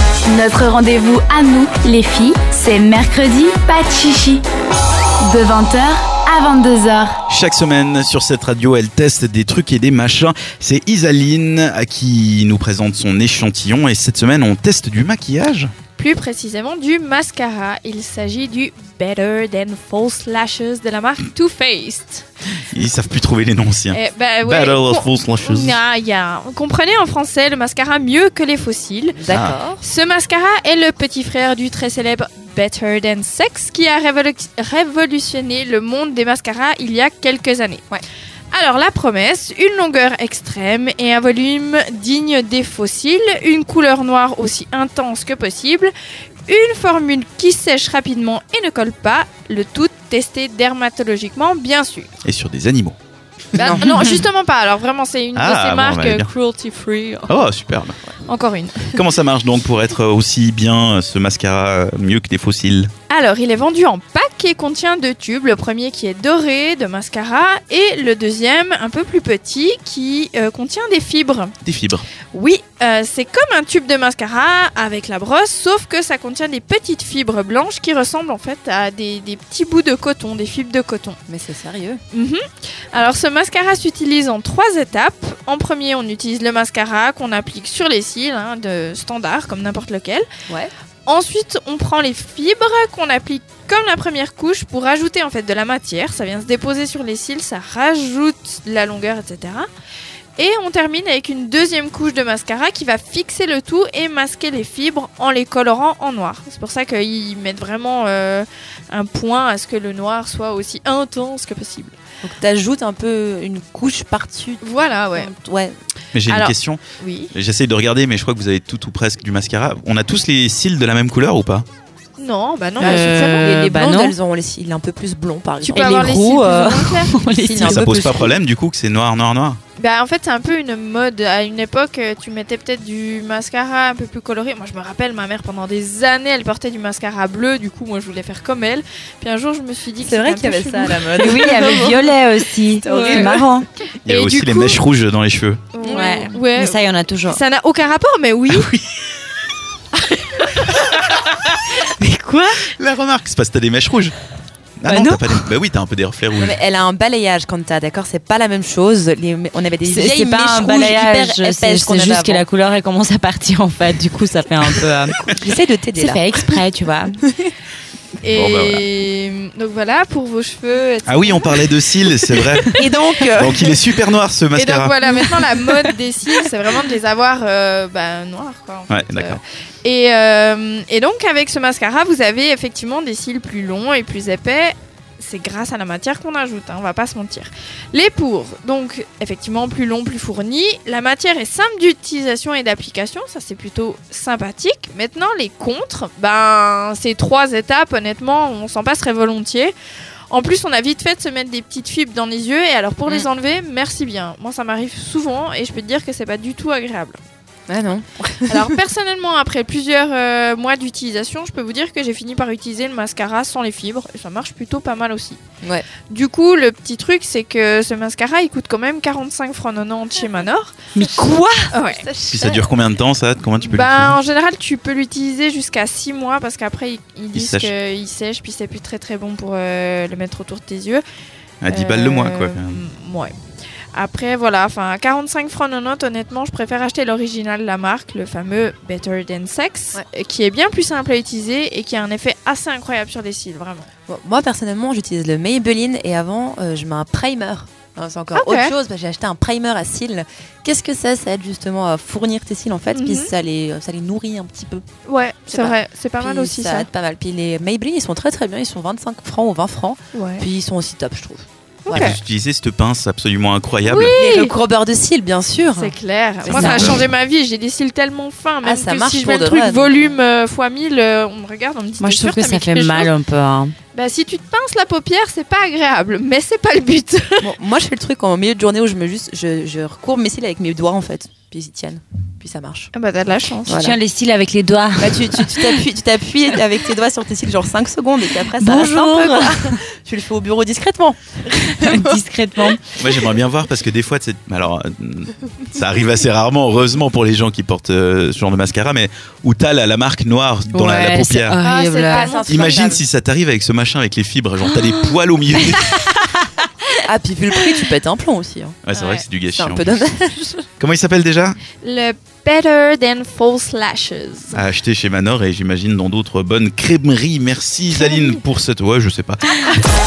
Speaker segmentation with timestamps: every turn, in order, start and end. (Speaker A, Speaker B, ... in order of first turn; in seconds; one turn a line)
Speaker A: 0.3-4.4
Speaker A: 5.2-7.2
Speaker B: 7.3-15.7
Speaker C: 16.0-22.3
Speaker B: 22.7-25.8
Speaker C: 23.9-29.2
Speaker D: 29.2-29.8
Speaker B: 29.3-29.6
Speaker C: 29.8-37.8
Speaker C: 38.5-45.9
Speaker C: 46.5-52.1
Speaker B: 52.2-53.0
Speaker C: 53.5-57.4
Speaker D: 53.6-54.1
Speaker B: 53.6-53.9
Speaker B: 55.3-56.3
Speaker B: 57.3-58.0
Speaker C: 58.3-59.0
Speaker B: 58.9-62.9
Speaker C: 63.1-71.5
Speaker B: 71.6-72.1
Speaker C: 72.3-81.2
Speaker D: 81.3-82.0
Speaker C: 82.1-90.3
Speaker C: 91.1-99.7
Speaker C: 100.4-112.0
Speaker D: 112.2-115.7
Speaker C: 114.6-115.3
Speaker B: 116.1-116.8
Speaker C: 116.3-117.3
Speaker B: 117.3-121.7
Speaker C: 122.2-123.5
Speaker E: 122.8-124.1
Speaker D: 122.8-126.2
Speaker C: 125.6-127.2
Speaker E: 125.7-128.1
Speaker D: 127.4-128.4
Speaker B: 127.6-129.6
Speaker C: 129.8-141.9
Speaker D: 140.0-142.0
Speaker E: 141.2-143.7
Speaker D: 142.8-143.4
Speaker C: 142.8-143.4
Speaker B: 144.1-145.7
Speaker C: 144.1-144.8
Speaker C: 145.7-148.7
Speaker D: 145.8-146.3
Speaker E: 146.0-147.4
Speaker B: 148.5-148.9
Speaker B: 150.6-151.4
Speaker E: 151.8-152.7
Speaker B: 152.7-154.2
Speaker B: 154.8-156.6
Speaker D: 154.8-155.2
Speaker D: 156.4-162.4
Speaker E: 159.8-165.2
Speaker D: 165.3-166.2
Speaker E: 166.0-167.2
Speaker C: 168.2-171.8
Speaker B: 168.3-168.8
Speaker B: 171.1-172.8
Speaker D: 172.8-173.7
Speaker B: 173.3-175.0
Speaker C: 174.6-199.7
Speaker B: 178.9-179.4
Speaker C: 200.3-207.2
Speaker D: 207.7-208.7
Speaker C: 208.5-215.4
Speaker D: 215.6-215.9
Speaker C: 216.1-220.8
Speaker E: 220.9-221.7
Speaker C: 221.7-222.0
Speaker D: 222.0-222.6
Speaker B: 222.2-224.2
Speaker C: 223.6-231.0
Speaker B: 227.3-227.7
Speaker B: 231.6-232.8
Speaker C: 231.7-233.3
Speaker C: 233.9-243.9
Speaker D: 244.1-254.8
Speaker C: 248.3-248.7
Speaker C: 252.9-253.3
Speaker C: 255.1-256.9
Speaker D: 255.5-262.1
Speaker C: 260.1-260.4
Speaker C: 261.9-262.2
Speaker B: 261.9-264.2
Speaker C: 263.8-264.6
Speaker D: 264.0-267.0
Speaker C: 265.8-273.1
Speaker E: 266.5-266.9
Speaker D: 268.6-270.2
Speaker E: 272.0-273.8
Speaker C: 273.9-277.5
Speaker D: 277.4-282.9
Speaker C: 282.9-283.8
Speaker D: 283.6-284.0
Speaker E: 283.7-285.7
Speaker D: 285.0-292.7
Speaker E: 288.6-289.8
Speaker E: 291.8-292.9
Speaker B: 292.9-301.6
Speaker E: 300.7-302.3
Speaker C: 301.6-302.8
Speaker D: 301.8-303.0
Speaker B: 302.4-306.0
Speaker E: 305.8-306.6
Speaker D: 307.1-308.8
Speaker B: 308.9-310.1
Speaker C: 308.9-309.2
Speaker D: 309.5-310.6
Speaker B: 310.8-311.6
Speaker C: 311.8-314.6
Speaker B: 314.5-319.5
Speaker C: 317.9-318.4